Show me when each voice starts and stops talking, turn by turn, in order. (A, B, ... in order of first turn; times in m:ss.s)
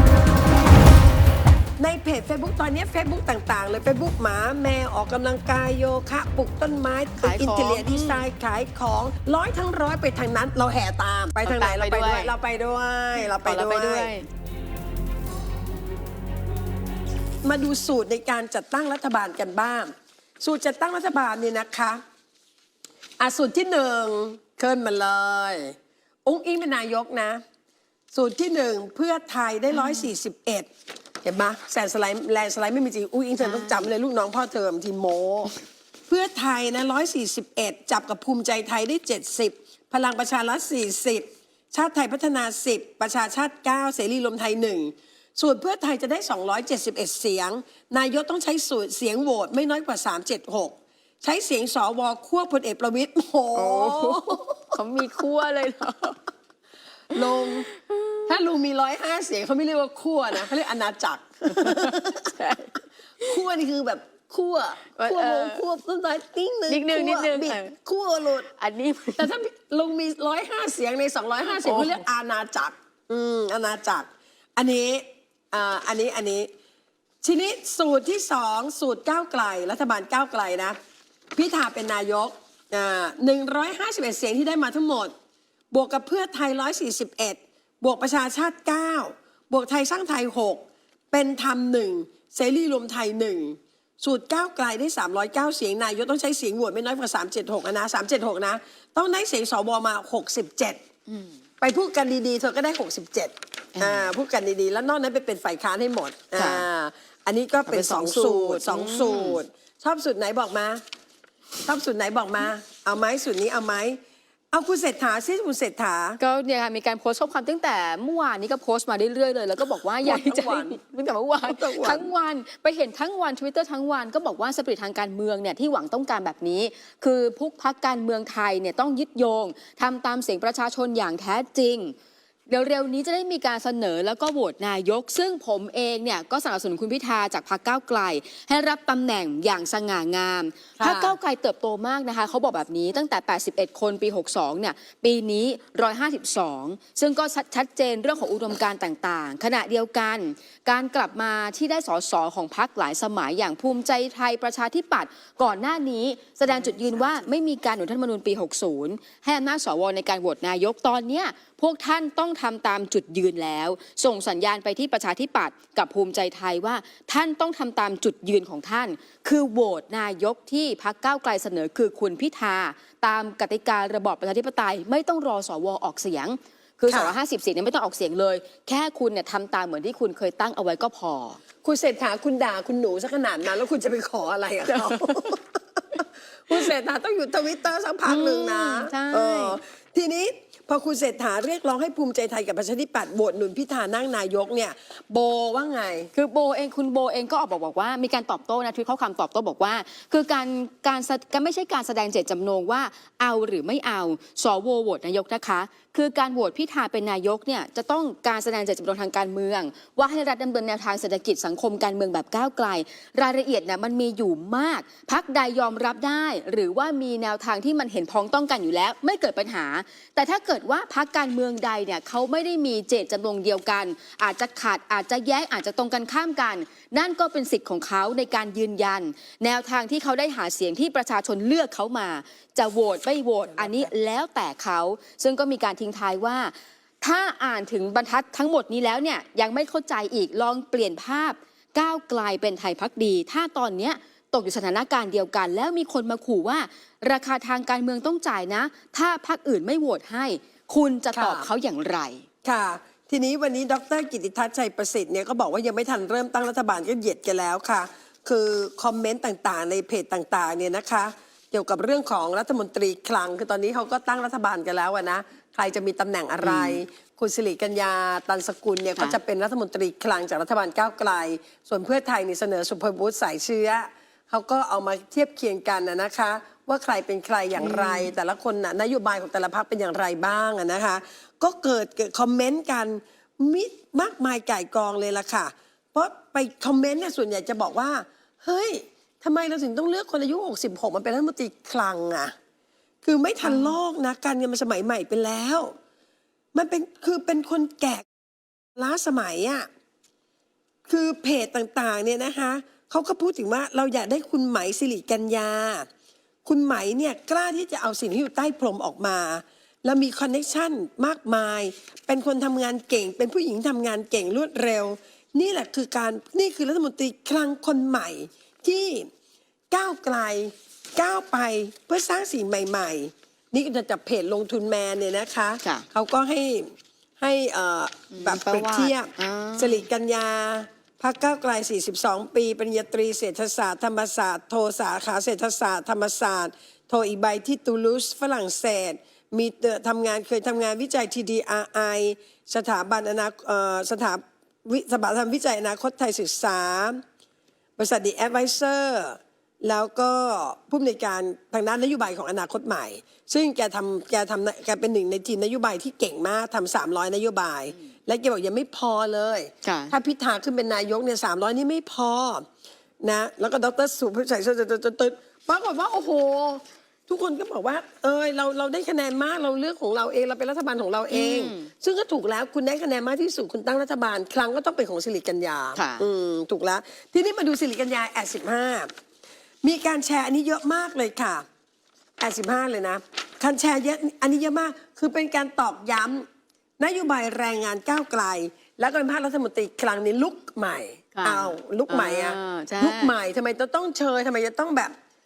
0:01.8-0:14.1 A
0:07.2-0:08.2 B
0:11.4-0:12.3 B
0:13.2-0:14.3 B
0:17.4-0:22.0 A
0:23.2-0:27.4 A
0:28.1-0:30.7 A
0:29.7-0:30.1 B
0:31.2-0:35.5 A
0:33.4-0:33.9 B
0:36.1-0:54.8 A
0:53.5-0:56.2 B
0:57.1-0:57.6 A
0:57.1-0:58.2 B
0:58.3-1:02.3 A
1:01.4-1:03.3 B
1:03.2-1:08.5 A
1:05.0-1:05.6 B
1:06.7-1:07.7 B
1:08.5-1:09.3 B
1:09.2-1:16.5 A
1:11.5-1:12.0 B
1:17.2-1:20.8 A
1:21.4-1:25.1 A
1:25.7-1:40.8 A
1:41.6-1:50.8 A
1:43.8-1:44.1 B
1:46.3-1:46.7 B
1:47.6-1:49.4 B
1:51.6-1:54.0 A
1:54.5-1:56.2 A
1:56.2-2:12.0 B
2:00.0-2:00.8 A
2:01.4-2:02.1 A
2:12.5-3:01.4 B
2:20.8-2:21.2 A
2:36.5-2:37.3 A
2:56.9-2:57.1 A
3:01.6-3:05.4 A
3:04.7-3:05.3 B
3:06.0-3:16.1 A
3:08.0-3:09.6 B
3:16.1-4:12.2 B
3:53.5-3:53.9 A
4:11.1-4:11.5 A
4:12.4-4:52.3 A
4:26.4-4:26.8 B
4:37.6-4:38.1 B
4:53.0-4:55.7 A
4:53.4-4:53.8 B
4:56.5-4:58.0 A
4:58.8-4:59.7 A
5:00.9-5:05.9 A
5:06.4-5:19.1 A
5:19.7-5:47.0 A
5:28.1-5:29.8 B
5:47.8-6:02.4 A
5:59.6-5:59.9 B
6:03.0-6:18.9 A
6:11.1-6:11.7 B
6:15.8-6:16.0 B
6:19.6-6:21.4 A
6:22.2-6:26.2 A
6:26.8-6:34.9 A
6:31.1-6:33.1 B